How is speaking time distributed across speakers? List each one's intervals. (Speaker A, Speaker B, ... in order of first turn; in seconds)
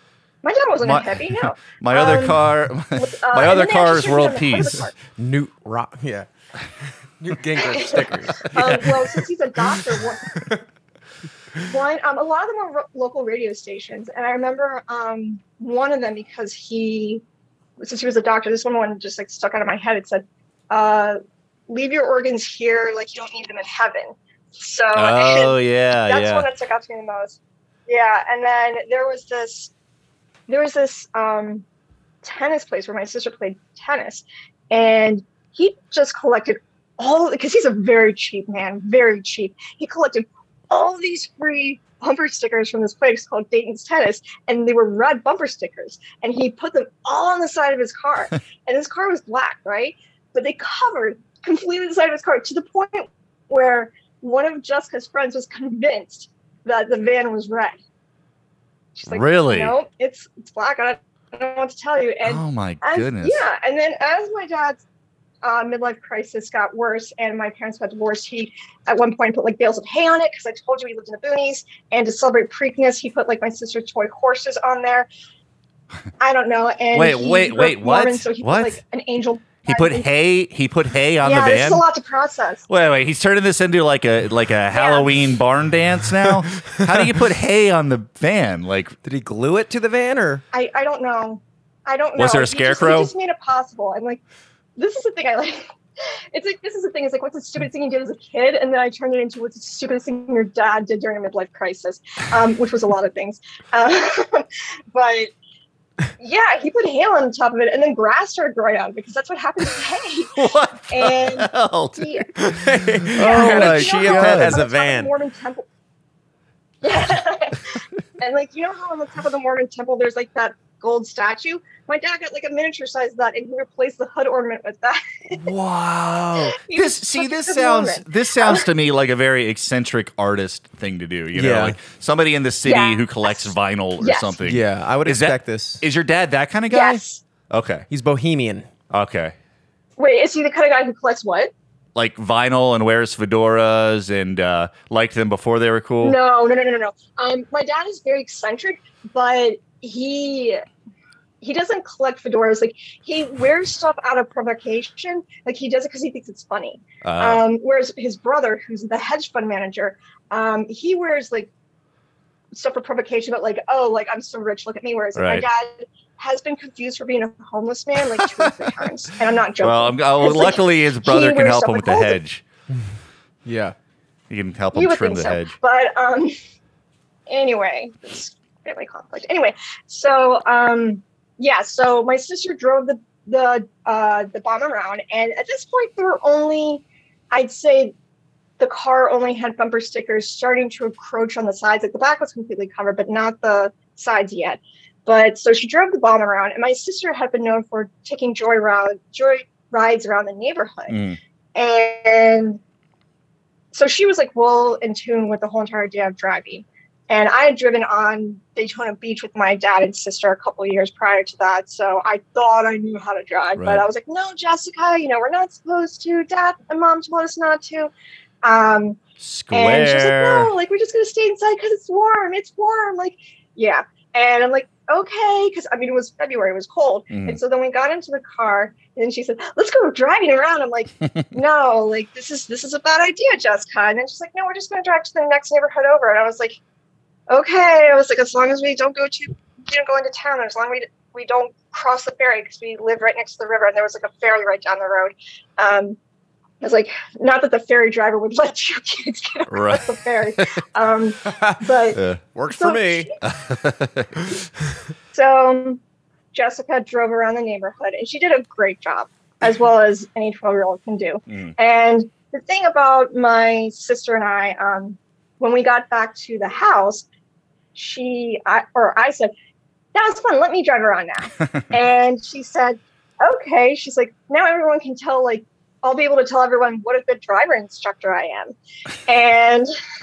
Speaker A: 0.4-2.4, 3.0-4.9, 7.6-10.3, 11.6-17.2, 17.8-29.7, 30.5-31.6, 32.2-57.8, 58.9-64.8, 65.4-75.1, 76.2-80.1, 81.2-82.6, 84.7-85.1, 90.5-94.2, 94.8-105.3, 106.2-112.3, 113.1-115.7, 116.8-125.4, 126.5-128.7, 132.6-134.3, 136.7-137.2, 140.0-141.5, 146.0-150.6, 151.4-161.5, 162.5-172.2, 174.7-176.3, 177.3-187.9, 188.6-201.0, 201.5-202.6, 203.7-217.9, 218.4-219.0, 219.5-236.6, 237.3-246.0, 246.6-253.2, 255.1-255.8, 256.3-267.1, 267.7-269.3, 269.9-278.5, 279.1-279.7
Speaker B: 0.8-4.8, 8.4-9.2, 24.9-26.5, 59.1-59.7, 62.2-63.4, 76.9-78.8, 79.7-81.8, 82.7-89.0, 92.2-93.1, 110.4-114.6, 125.4-137.8, 138.9-139.3, 141.9-146.2, 157.0-157.4, 165.2-165.4, 168.2-168.5, 169.6-172.4, 174.3-175.5, 200.9-201.2, 213.6-213.8, 219.2-220.5, 227.1-227.4, 249.5-250.5, 251.9-252.2, 253.2-254.1
Speaker C: 5.2-6.3, 6.8-8.8, 10.3-10.6, 89.0-90.4, 112.4-115.1, 131.3-131.8, 134.4-135.8, 137.9-138.7, 173.4-173.7, 251.3-251.6, 252.3-253.1